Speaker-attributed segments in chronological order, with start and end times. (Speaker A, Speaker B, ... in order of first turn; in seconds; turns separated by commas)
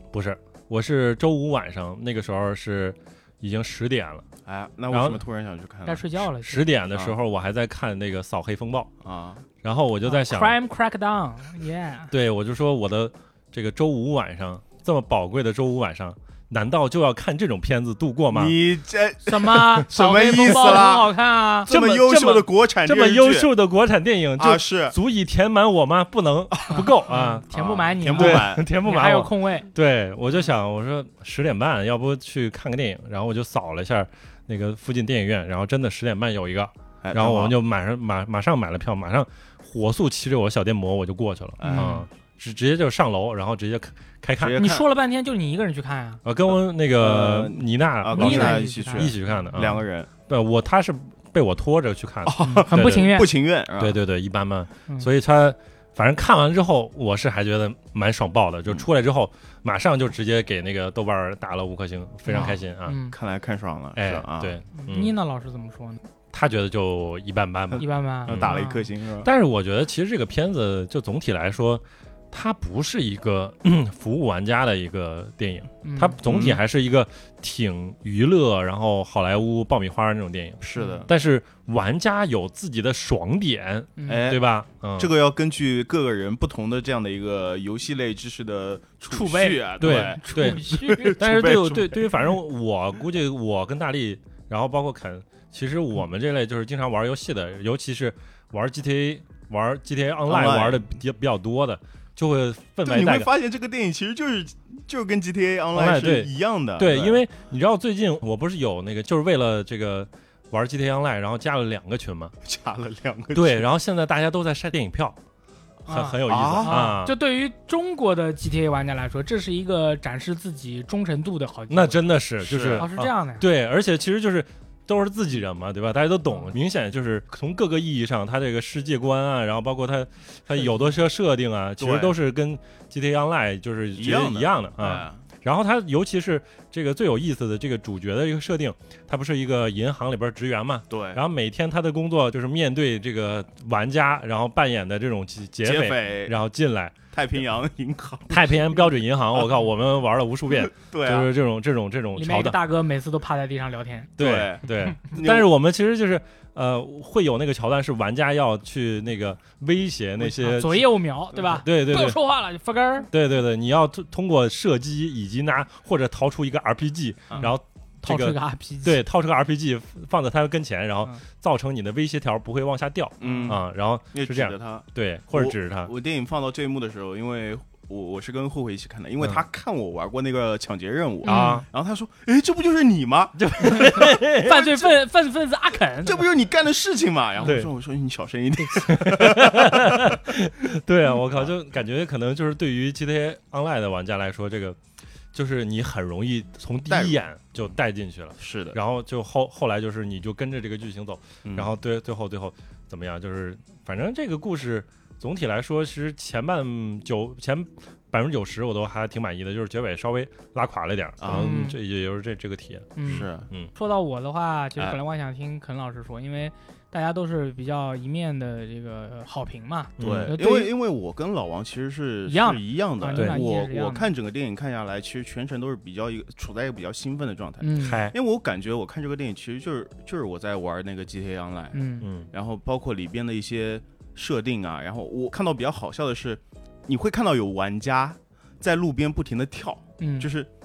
Speaker A: 0.1-4.2, Speaker B: 4.5-6.0, Speaker A: 4.9-5.2, Speaker C: 5.8-6.7, Speaker A: 6.4-8.9, Speaker B: 9.0-9.4, Speaker A: 9.6-10.5, Speaker C: 10.0-12.1, Speaker A: 12.1-18.6, Speaker B: 18.3-21.1, Speaker C: 19.2-21.7, Speaker A: 20.1-20.9, Speaker B: 21.6-23.5, Speaker A: 21.7-27.4, Speaker B: 24.4-24.9, Speaker C: 26.7-29.7, Speaker B: 27.5-28.6, Speaker A: 28.1-44.6, Speaker B: 37.0-37.5, Speaker B: 41.6-41.9, Speaker C: 41.6-42.0, Speaker B: 44.4-44.8, Speaker C: 44.6-46.2, Speaker A: 46.2-53.1, Speaker B: 47.0-50.1, Speaker C: 48.1-49.1, Speaker B: 52.2-54.0, Speaker C: 52.4-53.3, Speaker A: 53.8-63.0, Speaker C: 62.3-63.1, Speaker B: 63.1-64.5, Speaker A: 64.0-65.1, Speaker C: 64.7-66.0, Speaker A: 66.3-68.6, Speaker B: 67.7-69.3, Speaker C: 67.8-68.8, Speaker A: 69.2-85.1, Speaker C: 75.8-76.2, Speaker B: 76.2-76.6, Speaker B: 80.6-81.1, Speaker C: 80.8-81.1, Speaker C: 84.0-84.3, Speaker B: 84.1-84.4, Speaker B: 85.0-92.1, Speaker C: 89.1-91.2, Speaker A: 89.8-90.6, Speaker A: 91.1-103.3, Speaker B: 100.3-100.8, Speaker B: 102.8-107.2, Speaker A: 105.7-112.3, Speaker B: 112.4-113.6, Speaker A: 113.3-115.2, Speaker A: 115.8-117.1, Speaker C: 115.9-122.1, Speaker B: 116.2-117.0, Speaker A: 121.7-146.9, Speaker B: 122.4-122.8, Speaker C: 122.8-123.5, Speaker C: 126.3-126.5, Speaker B: 131.8-132.1, Speaker B: 133.9-135.2, Speaker B: 140.9-141.2, Speaker B: 145.6-146.3, Speaker B: 147.1-148.8, Speaker A: 148.3-152.6, Speaker B: 150.5-151.3, Speaker C: 152.2-154.1, Speaker A: 154.2-160.9, Speaker B: 154.2-155.5, Speaker C: 160.2-163.1, Speaker A: 161.6-162.2, Speaker A: 163.1-175.9, Speaker C: 167.4-169.0, Speaker C: 173.2-173.6, Speaker B: 173.2-173.6, Speaker B: 174.1-184.5, Speaker C: 181.2-181.6, Speaker A: 181.2-181.6, Speaker A: 183.4-184.8, Speaker C: 184.4-186.2, Speaker B: 186.0-190.2, Speaker A: 187.4-187.7, Speaker A: 188.8-194.8, Speaker B: 191.2-191.5, Speaker A: 195.3-213.7, Speaker B: 196.9-197.2, Speaker B: 198.4-198.8, Speaker B: 201.4-201.7, Speaker B: 211.2-211.6, Speaker C: 211.3-211.8, Speaker C: 212.9-220.7, Speaker B: 213.1-213.5, Speaker A: 220.0-220.3, Speaker B: 220.0-231.8, Speaker C: 222.3-224.1, Speaker A: 223.2-223.4, Speaker C: 227.6-228.1, Speaker A: 227.8-228.1, Speaker C: 231.7-232.1, Speaker A: 232.0-232.3, Speaker B: 232.3-240.5, Speaker C: 240.0-240.3